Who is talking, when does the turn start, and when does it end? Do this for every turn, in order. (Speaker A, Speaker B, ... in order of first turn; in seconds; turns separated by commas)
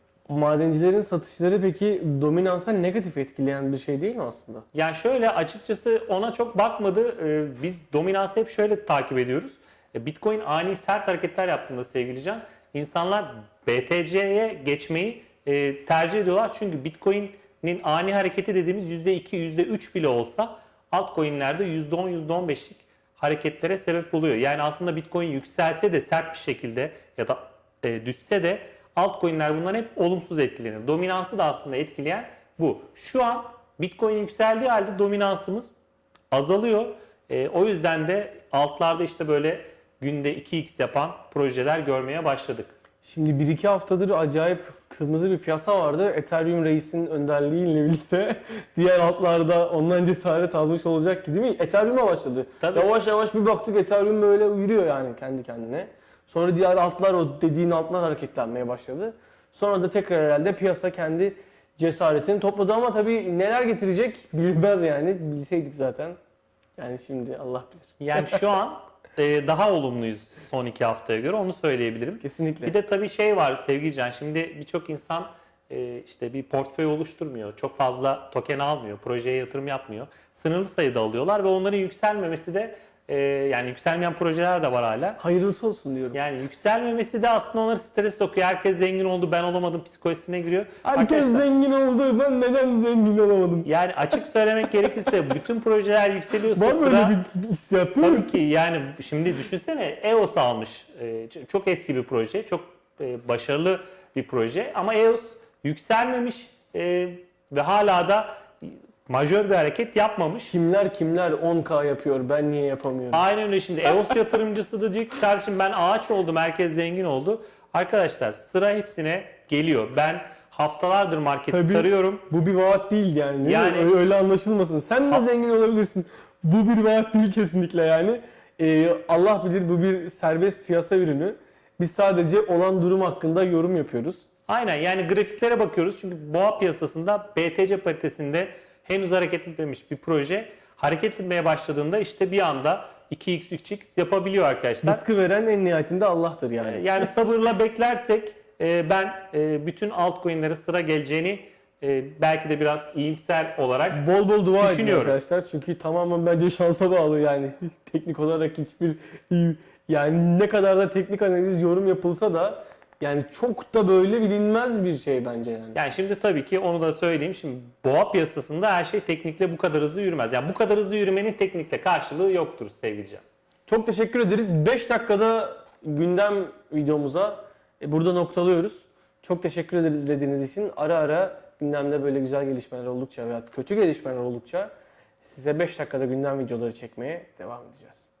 Speaker A: 0.3-4.7, Speaker B: 4.7-35.7, Speaker B: 36.3-42.7, Speaker A: 43.0-66.2, Speaker B: 52.6-52.9, Speaker A: 66.8-68.4, Speaker B: 68.0-85.2, Speaker A: 72.2-72.7, Speaker A: 85.2-86.2, Speaker B: 86.1-91.4, Speaker A: 90.8-93.7, Speaker B: 93.6-97.2, Speaker A: 96.5-98.4, Speaker B: 97.7-110.5, Speaker A: 110.5-113.2, Speaker B: 113.1-122.2, Speaker A: 121.5-134.2, Speaker B: 123.5-123.9, Speaker B: 134.5-145.0, Speaker A: 144.8-147.1, Speaker B: 146.6-154.0, Speaker A: 153.9-165.8, Speaker B: 154.6-155.2, Speaker B: 165.7-173.2, Speaker A: 173.7-184.7, Speaker A: 185.2-188.1